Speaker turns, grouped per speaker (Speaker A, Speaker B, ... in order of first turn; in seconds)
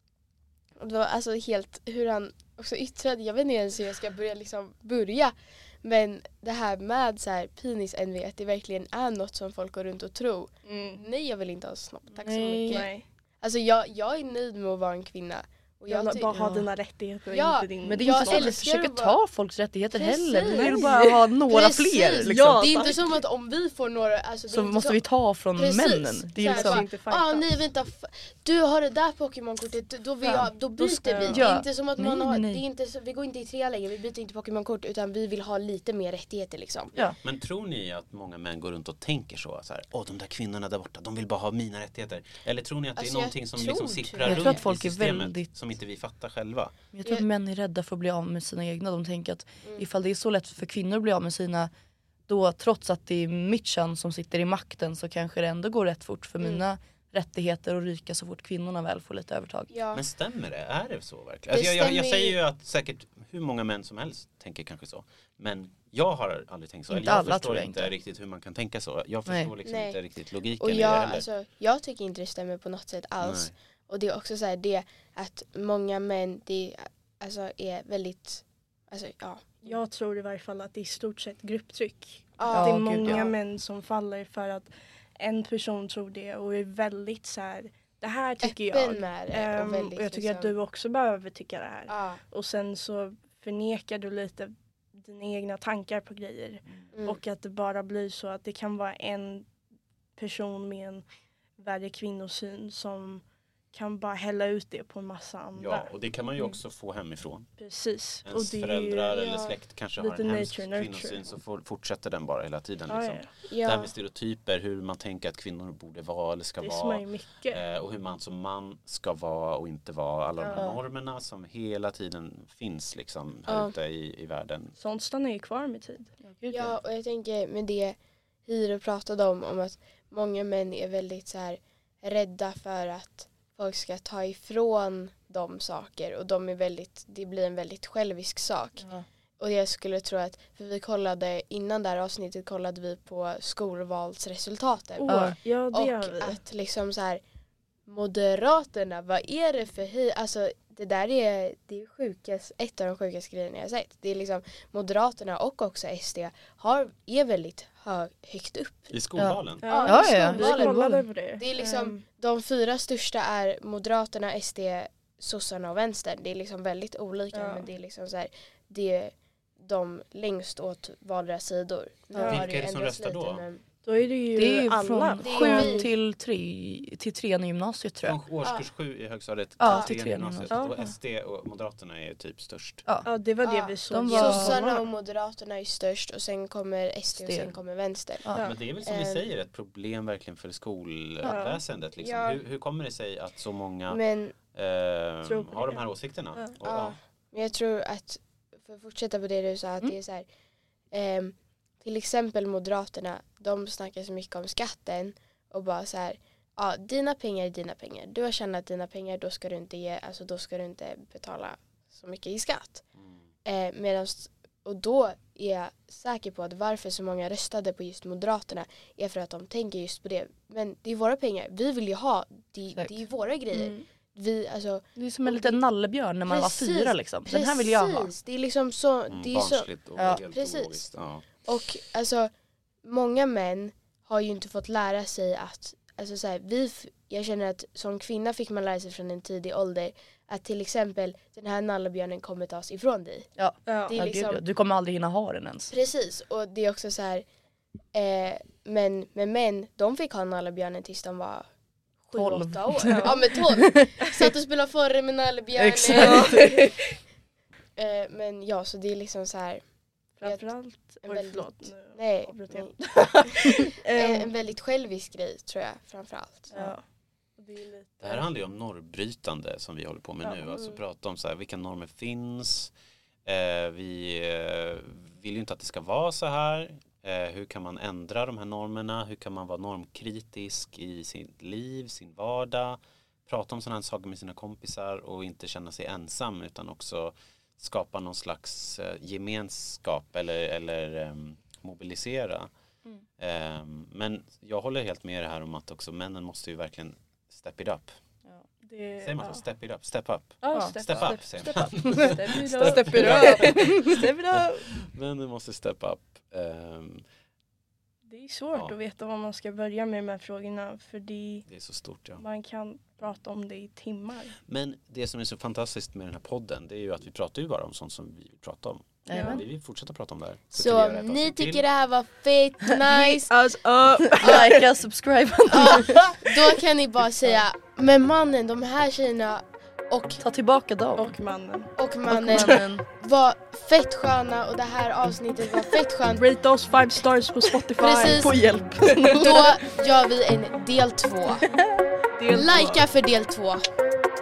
Speaker A: 0.8-16.4, 17.3-19.1, 19.9-20.9, 21.4-25.0, 25.6-36.9, 43.0-44.6, 59.7-60.0, 61.5-62.4, 69.6-70.0, 70.6-79.8, 82.4-83.3, 88.4-90.5, 91.9-92.2, 96.9-97.2, 109.1-109.5, 113.5-113.9, 120.4-120.7, 123.5-123.7, 126.5-147.2, 147.9-158.9, 159.6-173.6, 175.2-175.9, 178.4-178.7, 179.6-179.9, 183.4-188.3, 188.8-189.2, 192.0-192.4, 193.9-194.3, 196.6-200.2, 200.9-212.8, 213.4-225.6, 226.3-230.8, 231.4-232.3, 232.8-243.3, 243.8-244.4, 245.7-247.2, 247.9-251.4, 252.0-256.7, 257.8-259.6, 260.2-266.5, 320.5-323.4, 324.2-324.5, 325.5-330.2, 331.8-336.3, 337.8-338.5, 339.2-341.5, 342.3-343.7
Speaker B: 10.7-11.0, 12.7-13.0, 15.9-18.6, 20.4-21.2, 22.2-23.2, 26.4-27.5, 30.8-31.5, 79.6-99.5, 100.2-101.0, 101.6-105.9, 107.6-109.2, 110.0-111.2, 112.9-113.3, 116.6-117.6, 124.8-126.1, 145.0-146.4, 159.6-162.0, 167.3-167.7, 172.2-172.4, 173.8-175.9, 183.0-184.8, 191.2-191.6, 195.2-196.5, 243.7-244.0, 252.8-253.3, 255.9-256.8, 260.2-264.3, 266.5-268.3, 270.2-270.8, 298.6-299.4, 300.4-304.7, 308.1-311.5, 312.2-314.4, 319.1-319.4, 322.9-324.6, 330.9-332.6, 336.1-338.3, 338.8-339.6, 342.2-342.8
Speaker C: 12.1-12.9, 16.3-16.7, 17.8-22.6, 24.5-26.9, 30.2-30.5, 31.2-32.6, 44.2-45.5, 46.9-51.7, 52.3-59.7, 66.9-67.9, 82.5-83.2, 126.2-126.8, 145.1-145.4, 159.2-161.0, 174.3-178.2, 179.6-180.9, 183.9-184.8, 187.2-187.6, 224.9-228.1, 230.0-230.2, 243.4-245.7, 252.1-254.1, 255.6-256.6, 300.5-300.8, 301.8-304.0, 319.1-319.4, 324.0-326.3, 330.2-331.1, 332.1-332.9, 338.1-339.6
Speaker D: 37.2-46.7, 59.9-71.2, 73.2-73.5, 105.6-107.5, 108.2-124.7, 158.9-159.7, 172.2-173.4, 178.0-182.8, 188.4-194.0, 194.5-197.0, 229.1-231.2, 268.0-272.7, 273.2-292.5, 293.2-297.9, 299.0-307.0, 311.5-312.2, 314.5-321.6